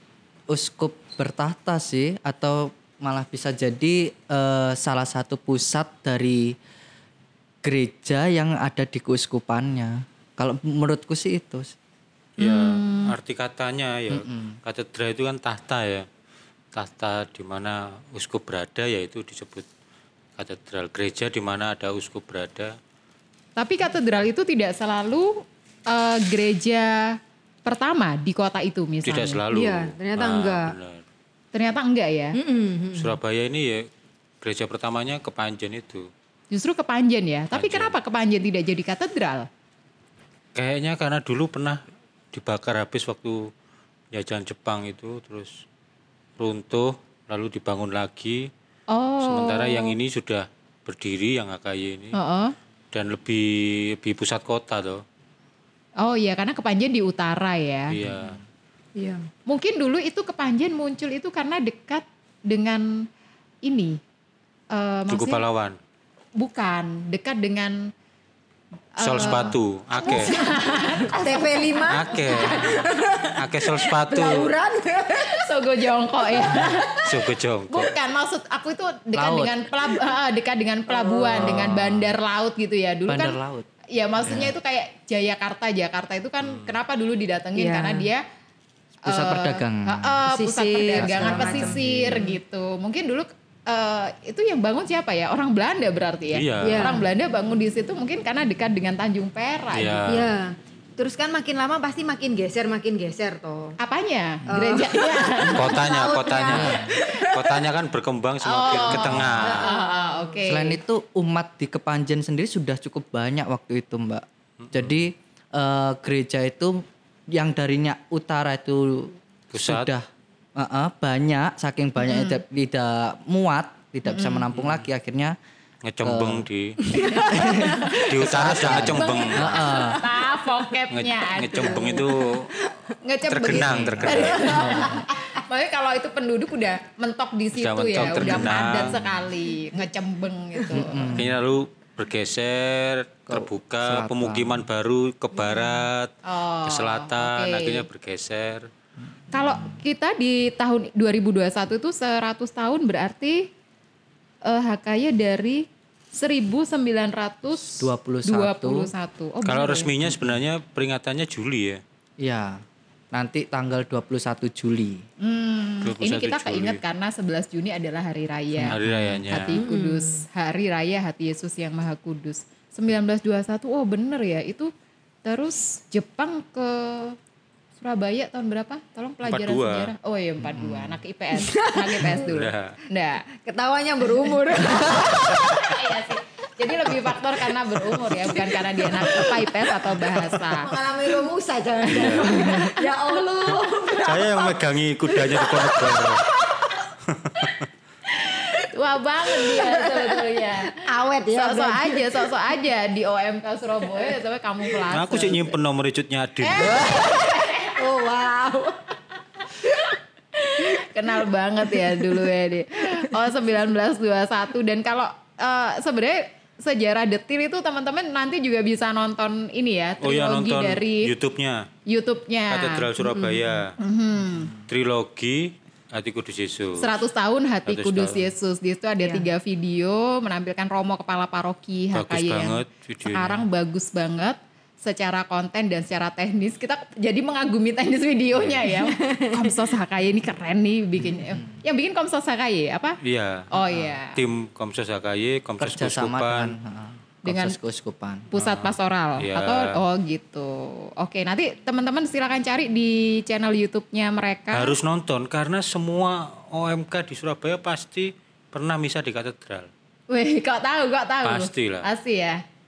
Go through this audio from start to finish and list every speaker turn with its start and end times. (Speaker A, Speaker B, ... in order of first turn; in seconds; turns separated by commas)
Speaker A: 0.5-6.5, Speaker A: 7.6-11.7, Speaker B: 12.4-13.1, Speaker C: 12.4-16.1, Speaker A: 14.1-14.6, Speaker C: 16.7-19.6, Speaker C: 20.4-22.8, Speaker B: 23.6-29.4, Speaker C: 29.0-31.0, Speaker D: 29.5-30.7, Speaker B: 31.5-32.4, Speaker D: 32.3-33.1, Speaker C: 32.9-33.9, Speaker C: 34.4-36.1, Speaker B: 36.5-39.5, Speaker C: 37.5-37.9, Speaker C: 40.5-43.5, Speaker C: 44.1-45.6, Speaker C: 46.4-48.5, Speaker B: 48.9-49.9, Speaker C: 49.2-52.1, Speaker B: 52.1-52.5, Speaker C: 52.9-55.0, Speaker B: 56.0-57.9, Speaker C: 57.9-58.4, Speaker A: 58.0-58.4, Speaker D: 59.0-59.3, Speaker B: 59.5-63.0, Speaker B: 63.6-64.0, Speaker B: 64.7-65.4, Speaker C: 65.1-65.8, Speaker B: 66.3-67.9, Speaker B: 69.0-72.8, Speaker C: 69.0-70.3, Speaker D: 70.0-75.4, Speaker C: 71.9-74.5, Speaker B: 75.2-77.1, Speaker D: 76.4-76.9, Speaker C: 77.0-77.9, Speaker B: 77.7-83.4, Speaker A: 79.1-79.7, Speaker D: 80.9-81.6, Speaker C: 81.5-82.0, Speaker A: 83.1-83.7, Speaker B: 83.9-88.2, Speaker A: 84.2-84.5, Speaker C: 86.4-86.7, Speaker D: 87.5-88.1, Speaker A: 89.0-90.2, Speaker B: 89.1-100.1, Speaker D: 90.3-92.4, Speaker A: 91.0-92.2, Speaker C: 96.3-97.0, Speaker D: 96.6-97.1, Speaker C: 99.7-100.3, Speaker D: 100.1-103.8, Speaker B: 103.8-105.9, Speaker D: 104.5-107.6, Speaker C: 105.5-109.7, Speaker A: 106.5-106.9, Speaker B: 108.4-110.8, Speaker D: 108.8-110.4, Speaker A: 108.9-109.4, Speaker A: 110.5-125.3, Speaker C: 114.6-114.9, Speaker C: 119.5-119.9, Speaker B: 122.0-122.4, Speaker B: 124.0-124.5, Speaker C: 124.5-124.8, Speaker C: 125.8-126.8, Speaker A: 126.0-126.5, Speaker D: 126.8-128.0, Speaker B: 126.9-132.1, Speaker A: 127.3-130.0, Speaker C: 128.0-129.7, Speaker D: 129.8-130.4, Speaker C: 130.9-132.5, Speaker D: 131.7-132.7, Speaker B: 133.0-141.2, Speaker C: 133.3-134.8, Speaker A: 133.5-135.0, Speaker C: 137.5-139.0, Speaker A: 138.1-139.1, Speaker A: 140.7-141.4, Speaker C: 141.1-146.1, Speaker A: 143.3-144.6, Speaker B: 146.2-147.8, Speaker C: 146.7-148.7, Speaker B: 149.3-153.5, Speaker A: 149.3-149.8, Speaker B: 154.4-159.9, Speaker A: 157.8-158.9, Speaker C: 159.4-161.8, Speaker A: 160.0-160.4, Speaker A: 162.2-165.0, Speaker B: 165.2-168.8, Speaker C: 165.8-166.8, Speaker A: 168.6-169.3, Speaker C: 168.6-169.6, Speaker B: 169.3-174.7, Speaker D: 169.5-170.2, Speaker B: 175.2-177.2, Speaker B: 177.8-183.2, Speaker C: 179.2-179.9, Speaker A: 180.4-181.0, Speaker D: 181.3-182.3, Speaker C: 182.2-182.8, Speaker D: 183.4-185.8, Speaker B: 185.3-190.7, Speaker D: 188.0-196.9, Speaker C: 191.9-192.7, Speaker B: 192.2-192.8, Speaker C: 194.0-196.3, Speaker C: 197.1-197.6, Speaker B: 198.2-200.8, Speaker D: 199.3-202.3, Speaker B: 201.3-205.5, Speaker C: 204.9-206.8, Speaker B: 206.4-207.8, Speaker D: 206.6-208.8, Speaker D: 209.6-209.9, Speaker B: 210.4-221.1, Speaker D: 211.8-212.3, Speaker C: 220.0-221.7, Speaker B: 221.9-222.8, Speaker C: 222.5-223.7, Speaker D: 223.0-223.6, Speaker B: 223.8-224.5, Speaker C: 224.7-226.9, Speaker B: 226.8-243.0, Speaker C: 227.7-228.3, Speaker D: 229.0-229.3, Speaker C: 231.9-233.4, Speaker D: 238.6-239.6, Speaker A: 241.0-241.6, Speaker C: 243.0-243.5, Speaker B: 243.5-244.2, Speaker C: 244.1-246.5, Speaker A: 245.6-248.3, Speaker B: 247.2-247.6, Speaker B: 248.3-254.8, Speaker C: 248.4-249.8, Speaker C: 254.5-259.7, Speaker B: 260.1-262.4, Speaker C: 261.2-261.9